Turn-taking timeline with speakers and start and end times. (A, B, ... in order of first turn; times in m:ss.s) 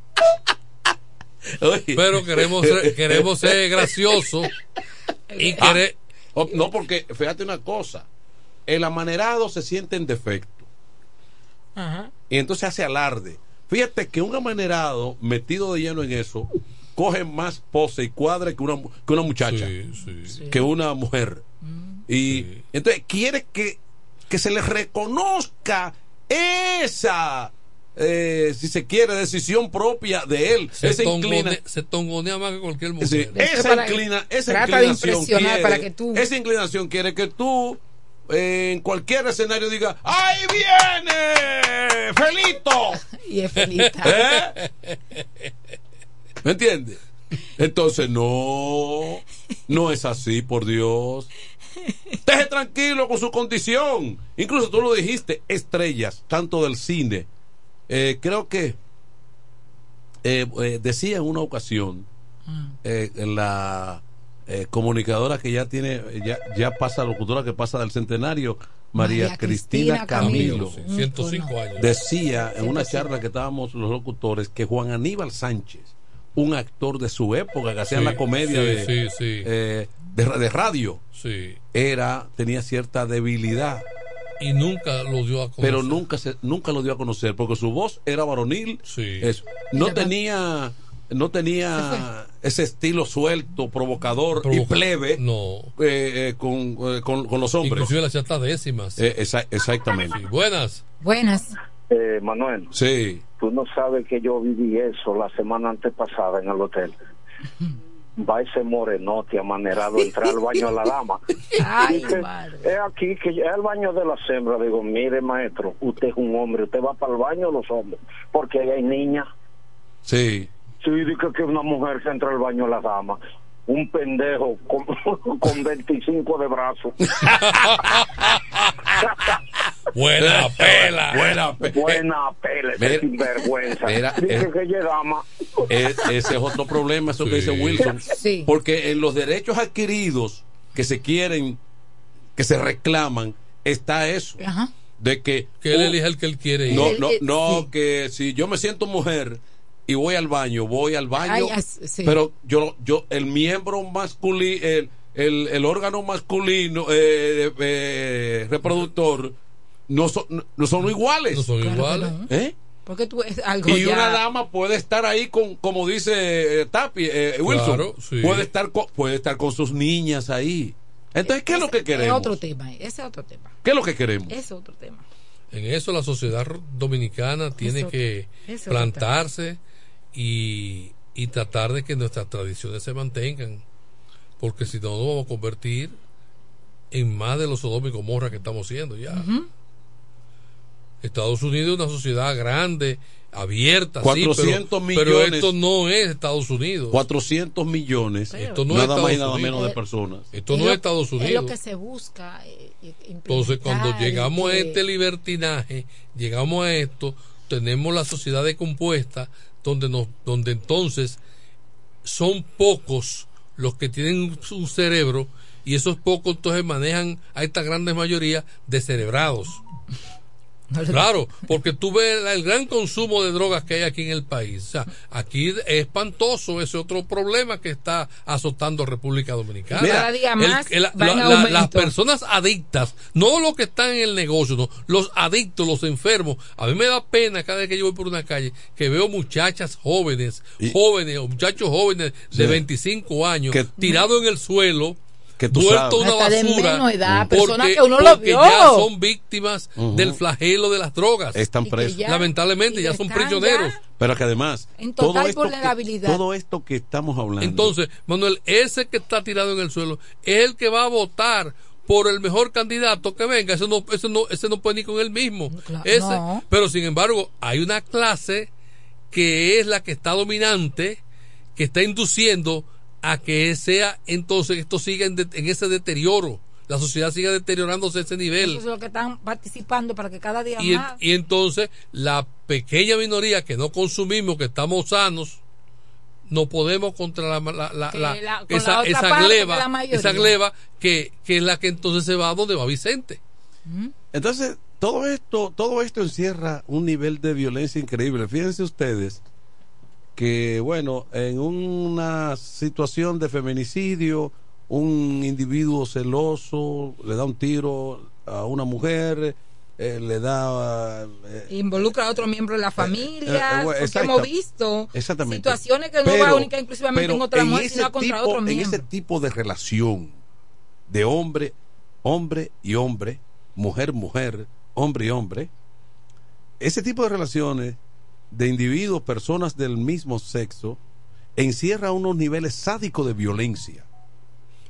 0:01.6-0:03.9 A
0:02.0-0:04.5 B
0:05.3-0:05.8 C
0:05.4-0:06.0 B
0:06.4-0:08.1 A
0:08.7-0:10.7 A
0:11.8-0:12.1 C
0:12.3-0:19.7 A
0:19.5-0:20.4 B
0:20.3-0:20.7 C
0:20.5-0:21.4 A
0:21.6-0:22.0 C
0:22.1-0:31.6 A
0:22.3-0:22.6 B
0:30.8-0:33.8 B
0:33.0-0:43.0 A
0:33.3-0:36.3 C
0:43.0-0:44.5 C
0:43.8-0:45.0 B
0:44.0-0:44.5 A
0:46.4-0:47.0 A
0:47.6-0:51.3 A
0:52.3-0:57.3 A
0:57.9-0:58.8 A
1:00.2-1:02.1 A
1:02.5-1:02.8 C
1:02.8-1:10.8 A
1:09.0-1:11.7 C
1:10.2-1:11.9 B
1:11.8-1:18.9 A
1:12.3-1:13.2 C
1:17.9-1:19.5 B
1:19.4-1:21.0 A
1:21.2-1:21.6 B
1:21.7-1:23.8 A
1:24.4-1:26.0 B
1:25.6-1:35.2 A
1:28.9-1:29.3 B
1:29.7-1:30.2 C
1:31.8-1:32.0 C
1:34.4-1:35.7 B
1:35.8-1:37.9 A
1:37.6-1:39.0 B
1:39.0-1:40.2 A
1:40.1-1:40.8 B
1:41.0-1:41.5 C
1:41.9-1:42.7 D
1:42.7-1:43.2 A
1:43.4-1:47.0 D
1:48.2-1:51.2 D
1:51.6-1:52.7 C
1:51.8-1:59.3 D
2:00.1-2:00.5 A
2:00.8-2:06.9 D
2:07.2-2:07.6 A
2:07.6-2:08.7 B
2:09.9-2:11.4 B
2:10.2-2:12.0 A
2:11.7-2:15.3 D
2:12.8-2:13.1 A
2:13.8-2:14.5 A
2:15.7-2:21.6 A
2:17.2-2:17.9 B
2:18.1-2:18.5 C
2:22.4-2:24.4 A
2:24.4-2:24.7 C
2:25.0-2:26.0 A
2:25.6-2:27.0 B
2:26.7-2:27.7 C
2:26.7-2:39.4 A
2:31.2-2:32.2 C
2:39.9-2:41.5 A
2:41.3-2:42.2 B
2:41.5-2:42.3 C
2:42.3-2:42.5 A
2:42.9-2:44.2 C
2:43.7-2:52.4 A
2:47.5-2:48.5 B
2:51.2-2:53.6 C
2:53.6-2:54.4 A
2:54.3-2:55.0 C
2:55.5-2:59.6 B
2:57.6-2:59.1 C
3:00.1-3:03.6 B
3:04.4-3:06.0 B
3:06.9-3:09.3 B
3:09.1-3:09.5 C
3:11.0-3:17.0 B
3:14.0-3:15.5 A
3:16.9-3:20.3 A
3:18.3-3:18.9 C
3:18.4-3:19.6 B
3:19.5-3:19.8 C
3:20.3-3:21.6 B
3:20.5-3:24.8 C
3:23.3-3:31.2 B
3:32.0-3:39.6 B
3:40.7-3:41.2 C
3:40.9-4:05.0 B
3:49.8-3:51.9 C
3:49.8-3:50.1 A
4:02.3-4:02.6 A
4:03.5-4:03.8 A
4:03.8-4:04.1 C
4:05.4-4:06.0 A
4:05.5-4:11.5 B
4:06.0-4:08.9 C
4:09.8-4:10.2 A
4:11.3-4:12.1 A
4:11.6-4:13.8 C
4:12.0-4:13.8 B
4:14.0-4:17.7 A
4:14.8-4:16.2 C
4:17.4-4:28.5 B
4:25.5-4:26.4 C
4:29.1-4:31.0 B
4:31.6-4:38.6 B
4:38.4-4:41.0 C
4:40.6-4:45.4 B
4:46.3-4:53.2 B
4:47.9-4:50.4 C
4:53.7-4:53.9 C
4:54.1-4:59.2 A
5:00.2-5:11.5 A
5:11.5-5:18.9 C
5:12.8-5:14.3 A
5:14.9-5:20.2 A
5:20.9-5:25.5 A
5:26.6-5:27.8 A
5:28.3-5:30.8 A
5:31.4-5:33.8 A